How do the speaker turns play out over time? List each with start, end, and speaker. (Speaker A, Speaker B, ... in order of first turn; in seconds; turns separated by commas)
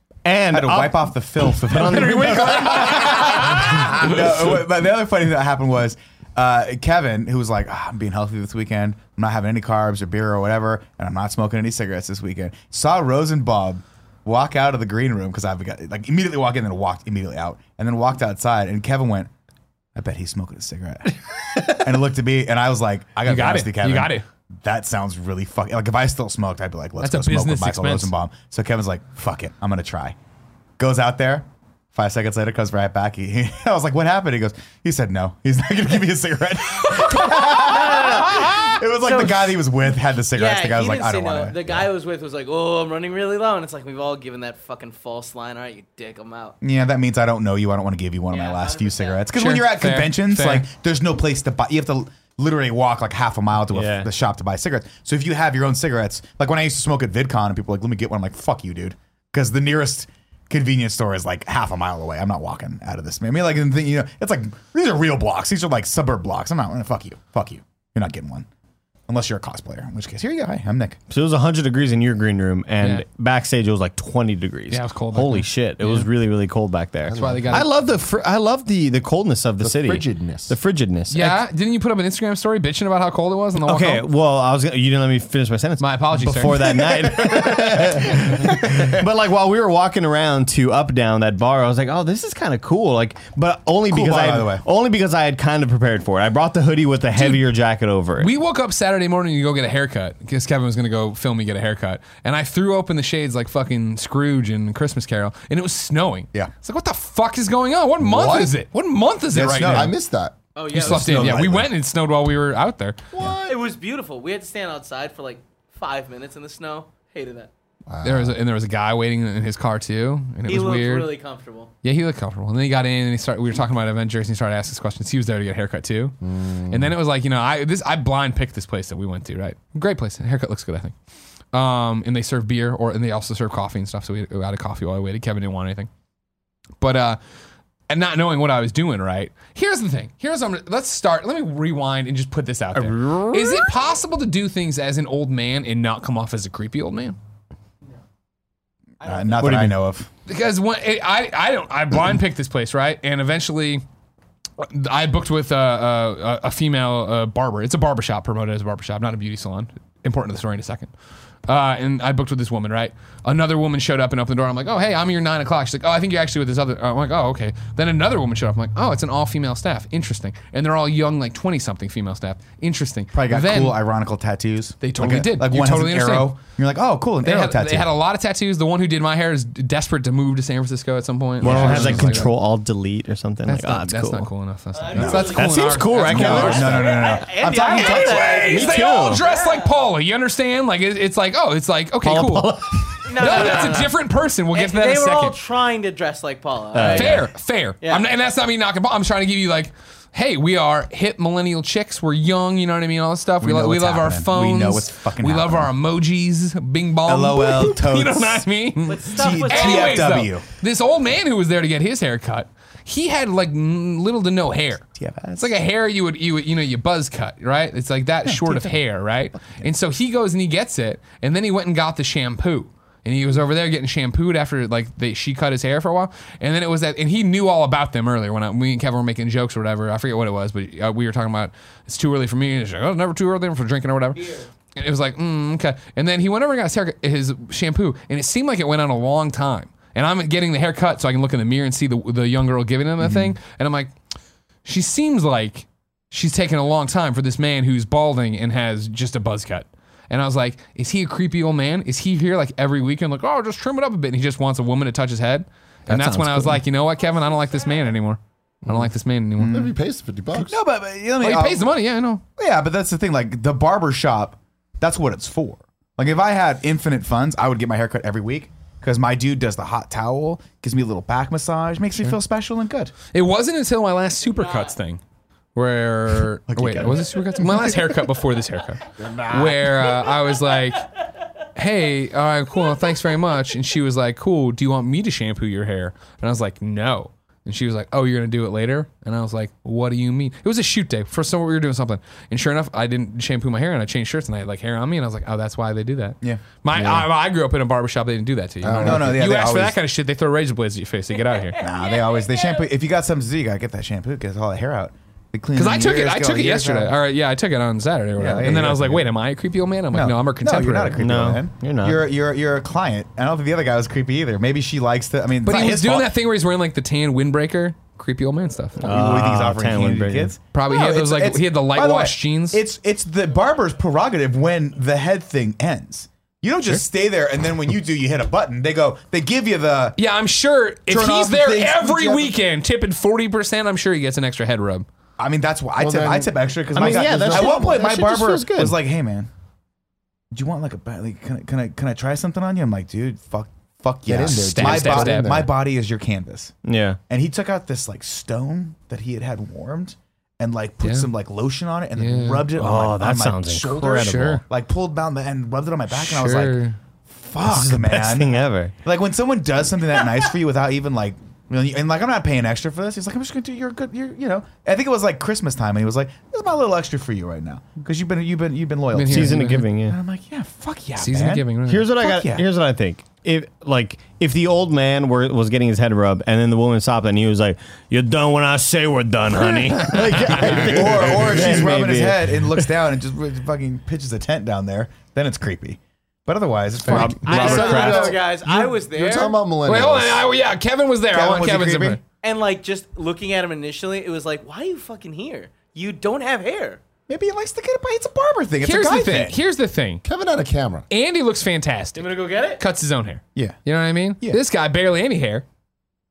Speaker A: 0.2-4.0, Speaker B: 0.5-19.3, Speaker C: 1.7-4.2, Speaker B: 19.9-30.1, Speaker C: 23.3-24.2, Speaker C: 27.0-28.1, Speaker B: 30.8-41.9, Speaker D: 37.2-39.5, Speaker D: 40.3-46.6, Speaker B: 46.6-68.5, Speaker D: 48.3-49.3, Speaker C: 49.4-50.7, Speaker A: 53.7-54.1, Speaker B: 69.1-71.0, Speaker A: 71.1-81.4, Speaker C: 74.7-76.1, Speaker E: 77.1-77.7, Speaker C: 77.1-77.7, Speaker E: 79.6-80.5, Speaker C: 81.1-84.0, Speaker A: 83.6-98.3, Speaker C: 85.8-86.8, Speaker B: 87.2-87.6, Speaker B: 93.9-94.6, Speaker C: 97.2-97.5, Speaker C: 98.2-109.9, Speaker E: 108.0-108.5, Speaker B: 109.3-110.0, Speaker E: 109.5-110.4, Speaker D: 110.5-111.4, Speaker B: 110.7-111.7, Speaker C: 110.7-113.0, Speaker E: 113.1-113.6, Speaker D: 113.5-117.5, Speaker E: 117.9-118.4, Speaker C: 118.0-121.1, Speaker D: 120.5-121.7, Speaker C: 121.8-130.9, Speaker E: 126.2-126.9, Speaker C: 131.5-135.9, Speaker C: 136.8-137.2, Speaker C: 137.9-147.2, Speaker A: 142.8-143.8, Speaker B: 149.0-150.1, Speaker D: 149.1-149.3, Speaker A: 149.4-149.8, Speaker C: 150.3-153.8, Speaker C: 154.6-160.9, Speaker C: 161.5-173.8, Speaker B: 173.1-177.9, Speaker C: 174.8-176.3, Speaker C: 177.2-182.3, Speaker A: 181.4-184.3, Speaker B: 181.4-182.3, Speaker C: 183.5-187.0, Speaker D: 184.8-189.8, Speaker B: 184.9-188.5, Speaker A: 185.1-187.0, Speaker C: 187.6-192.6, Speaker A: 188.5-189.2, Speaker A: 192.0-193.9, Speaker D: 193.1-193.9, Speaker C: 193.2-195.4, Speaker D: 194.5-197.3, Speaker A: 196.7-197.3, Speaker C: 196.8-214.8, Speaker B: 203.4-205.7, Speaker B: 207.1-210.4, Speaker D: 208.8-210.2, Speaker B: 215.0-215.5, Speaker C: 215.4-243.9, Speaker B: 218.2-219.7, Speaker D: 234.2-234.4, Speaker B: 243.0-243.4, Speaker C: 244.7-259.7, Speaker B: 255.9-256.6, Speaker B: 259.4-259.7, Speaker E: 259.4-260.6, Speaker B: 260.3-261.7, Speaker C: 261.2-262.2, Speaker B: 262.4-272.9, Speaker C: 273.1-275.0, Speaker D: 274.3-274.7, Speaker C: 275.6-280.9, Speaker B: 276.5-277.7, Speaker E: 279.0-279.7, Speaker C: 281.6-301.6, Speaker B: 296.2-297.1, Speaker E: 298.6-299.2, Speaker B: 298.7-299.8, Speaker D: 301.3-302.7, Speaker B: 301.6-307.0, Speaker C: 305.6-311.0, Speaker B: 308.2-309.1, Speaker B: 309.9-316.1, Speaker A: 311.0-312.0, Speaker C: 315.4-318.8, Speaker A: 318.8-320.4, Speaker B: 318.8-330.0, Speaker C: 320.5-322.6, Speaker C: 330.0-334.9, Speaker B: 330.9-332.3, Speaker B: 335.2-339.3, Speaker E: 335.8-337.6, Speaker A: 336.8-338.8, Speaker B: 340.3-346.5, Speaker E: 344.1-345.5, Speaker C: 344.3-345.3, Speaker A: 346.6-347.0, Speaker B: 347.1-372.4, Speaker C: 350.8-351.1, Speaker C: 352.0-352.5, Speaker A: 352.6-354.4, Speaker C: 353.8-354.4, Speaker C: 355.9-356.8, Speaker A: 357.4-358.7, Speaker C: 368.9-369.6, Speaker A: 369.1-370.0, Speaker C: 371.0-371.9, Speaker A: 371.7-382.7, Speaker C: 379.9-380.5, Speaker B: 380.0-388.0, Speaker A: 386.9-388.2, Speaker E: 386.9-390.3, Speaker D: 387.2-389.4, Speaker C: 389.0-392.0, Speaker B: 391.1-392.0, Speaker D: 392.2-396.8, Speaker B: 397.1-399.4, Speaker C: 398.6-400.0, Speaker E: 400.0-400.9, Speaker C: 400.9-405.4, Speaker D: 402.0-402.6